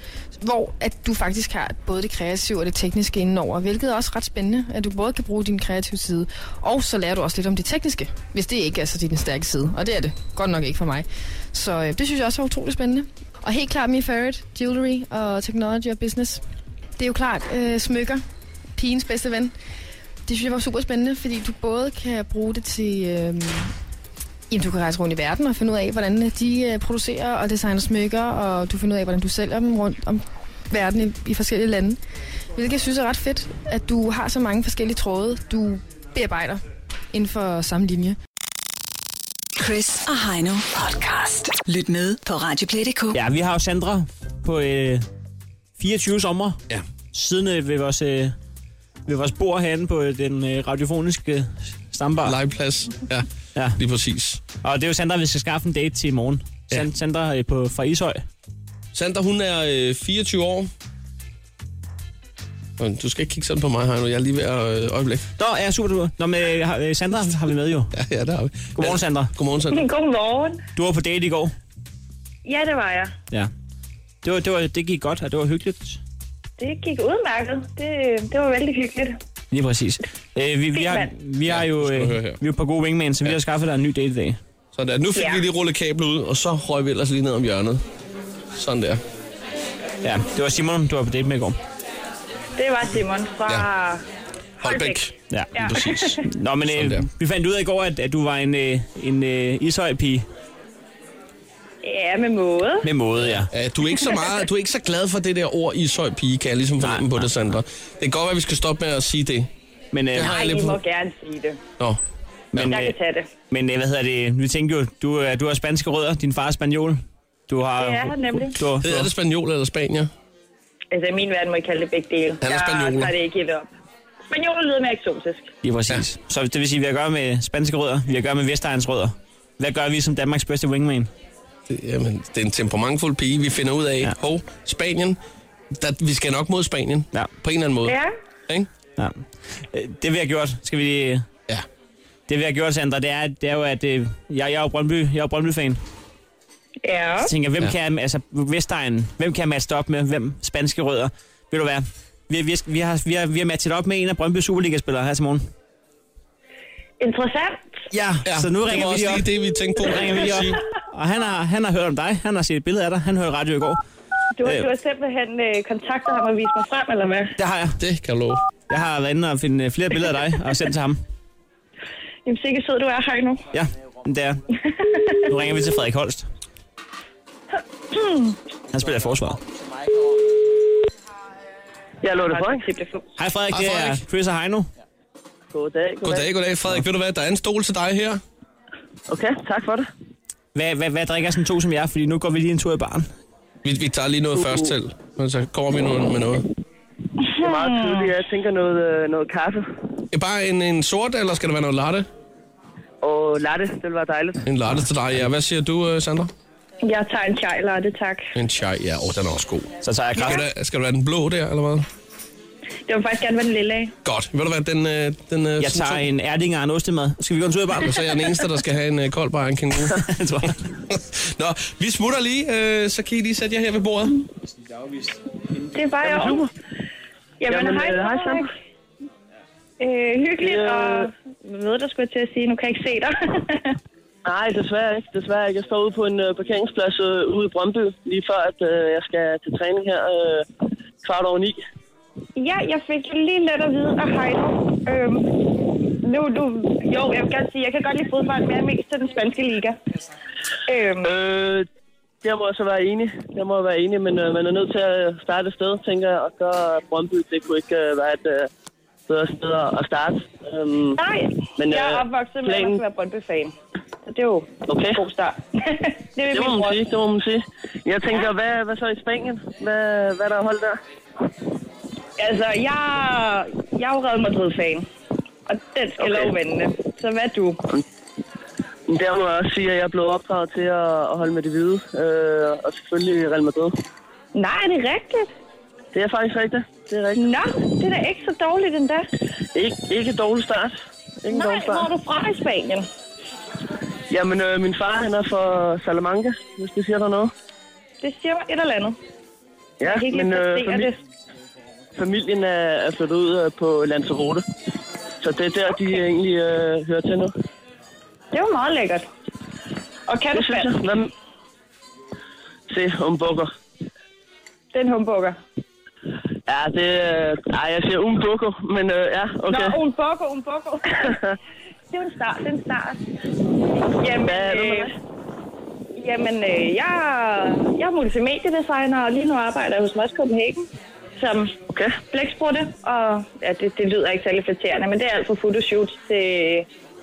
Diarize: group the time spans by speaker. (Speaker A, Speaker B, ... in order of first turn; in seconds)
Speaker A: 0.4-16.4, 17.0-18.2, 18.8-19.5, 20.3-23.7, 24.5-32.0, 32.6-38.2
Speaker B: 39.6-43.2
Speaker C: 43.1-45.1, 45.8-46.6, 47.1-48.4, 49.1-52.4, 54.6-58.3, 65.4-67.9, 68.8-69.3, 70.8-71.5, 74.2-76.0, 79.5-84.4, 90.0-91.6, 96.2-100.3, 102.8-103.5, 106.8-107.3, 109.9-110.5, 112.5-113.0, 113.5-119.1, 125.6-131.1, 139.0-141.3, 142.3-145.8, 147.2-155.5, 157.9-159.3, 159.8-163.8, 167.4-167.8, 168.7-171.0, 173.5-174.4, 175.3-176.3, 178.7-179.4, 183.2-184.7, 190.6-193.1, 209.8-210.4, 215.6-218.0, 219.9-220.7
Speaker D: 52.2-54.4, 58.9-60.7, 62.8-65.3, 67.9-69.9, 81.5-82.4, 84.7-87.8, 88.5-89.0, 94.6-97.1, 103.2-109.5, 110.1-110.8, 118.8-120.1, 122.4-123.1, 131.7-135.2, 135.7-138.7, 158.2-160.6, 167.8-168.4, 183.5-184.0, 186.0-188.2, 193.6-196.5, 200.1-202.1, 204.4-206.3, 208.3-211.9, 214.1-216.1, 217.8-220.0, 220.9-224.2
Speaker E: 69.7-70.6, 72.5-73.1, 76.6-79.2, 80.7-81.1, 85.2-85.4, 92.6-94.0, 94.6-96.2, 101.8-102.9, 110.2-111.6, 112.6-113.3, 117.8-118.6, 120.9-123.7, 124.3-125.5, 137.8-138.1, 146.8-147.3, 157.0-157.7, 164.4-167.3, 172.3-173.5, 174.7-175.1, 177.9-178.4, 182.3-183.1, 197.3-198.1, 206.8-208.3, 212.9-213.9, 225.7-226.5, 227.4-228.5, 229.8-233.7, 242.4-245.5, 246.0-249.8, 250.7-251.1, 261.0-266.9, 272.2-274.9, 275.5-277.6, 284.3-285.3, 287.2-289.1, 291.3-292.9, 298.0-299.0, 299.8-301.0, 308.3-309.1, 310.1-310.8, 314.7-315.4, 319.5-321.2, 321.9-323.0, 324.0-324.9, 325.9-331.6, 332.1-336.7
Speaker F: 182.0-182.7, 185.5-186.3, 189.1-189.9, 194.4-194.7, 197.4-199.7, 203.0-204.4, 226.0-226.5, 227.5-228.5, 230.4-231.1, 234.2-240.5, 241.0-241.6, 251.0-251.7, 252.2-258.5, 259.1-261.0, 261.6-262.8, 264.7-265.0, 266.3-270.8, 276.0-276.3, 278.9-283.7, 285.9-287.4, 289.6-291.9, 294.1-297.3, 299.8-300.9, 302.0-304.4, 305.2-307.3, 310.3-311.1, 312.7-313.5, 316.5-319.8, 321.1-321.4, 324.2-324.9, 331.7-332.0